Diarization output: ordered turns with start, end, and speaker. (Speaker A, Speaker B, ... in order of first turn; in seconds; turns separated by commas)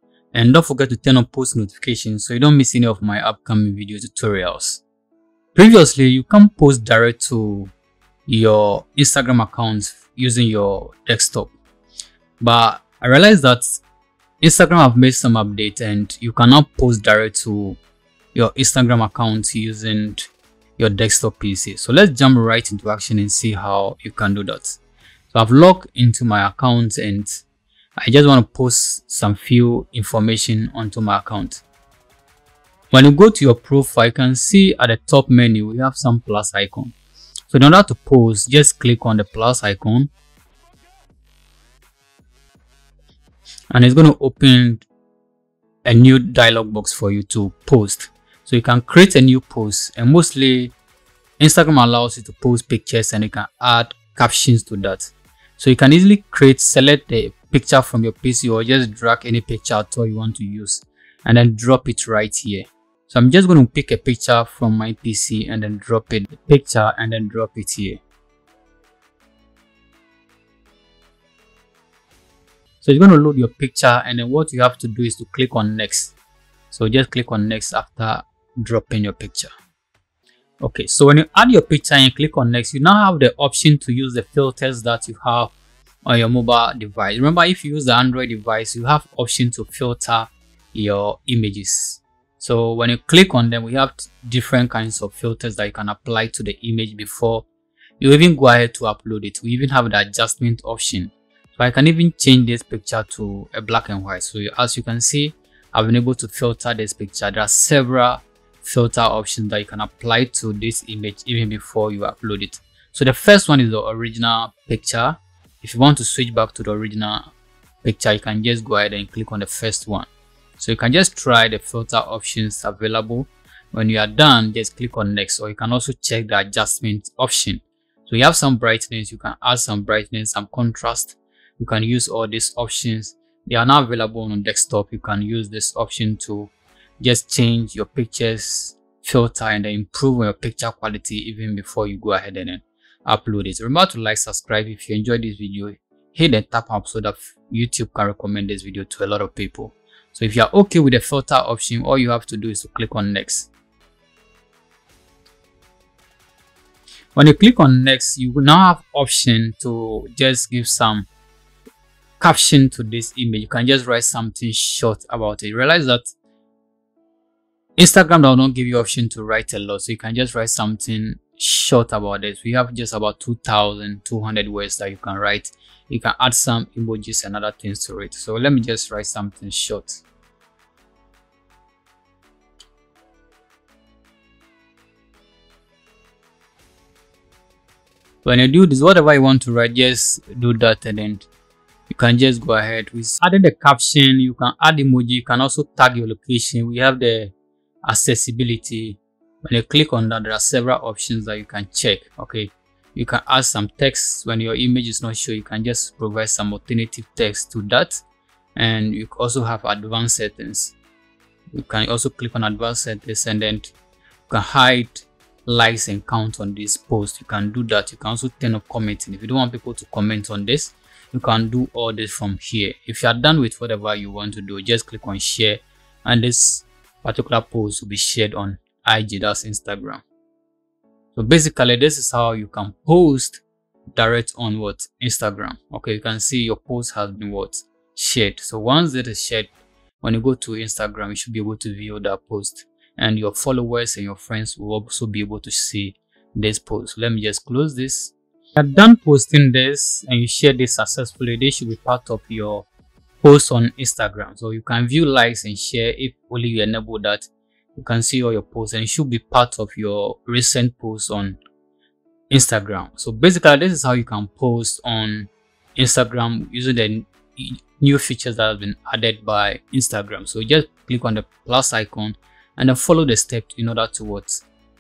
Speaker A: 0.3-4.8, Speaker A: 5.5-7.7, Speaker A: 8.3-11.6, Speaker A: 12.4-13.8, Speaker A: 14.4-17.8, Speaker A: 18.3-27.4, Speaker A: 28.0-31.6, Speaker A: 32.9-36.9, Speaker A: 37.5-40.1, Speaker A: 43.7-44.9, Speaker A: 45.9-50.7, Speaker A: 51.4-68.0, Speaker A: 72.8-76.1, Speaker A: 76.7-79.5, Speaker A: 80.6-85.5, Speaker A: 86.0-97.5, Speaker A: 98.0-117.3, Speaker A: 117.8-153.5, Speaker A: 157.2-161.1, Speaker A: 162.2-166.1, Speaker A: 167.8-180.0, Speaker A: 188.2-191.3, Speaker A: 191.9-197.3, Speaker A: 197.8-208.0, Speaker A: 208.6-210.8, Speaker A: 211.5-213.7, Speaker A: 214.3-230.0, Speaker A: 231.2-239.5, Speaker A: 240.0-252.7, Speaker A: 253.2-261.4, Speaker A: 262.3-274.4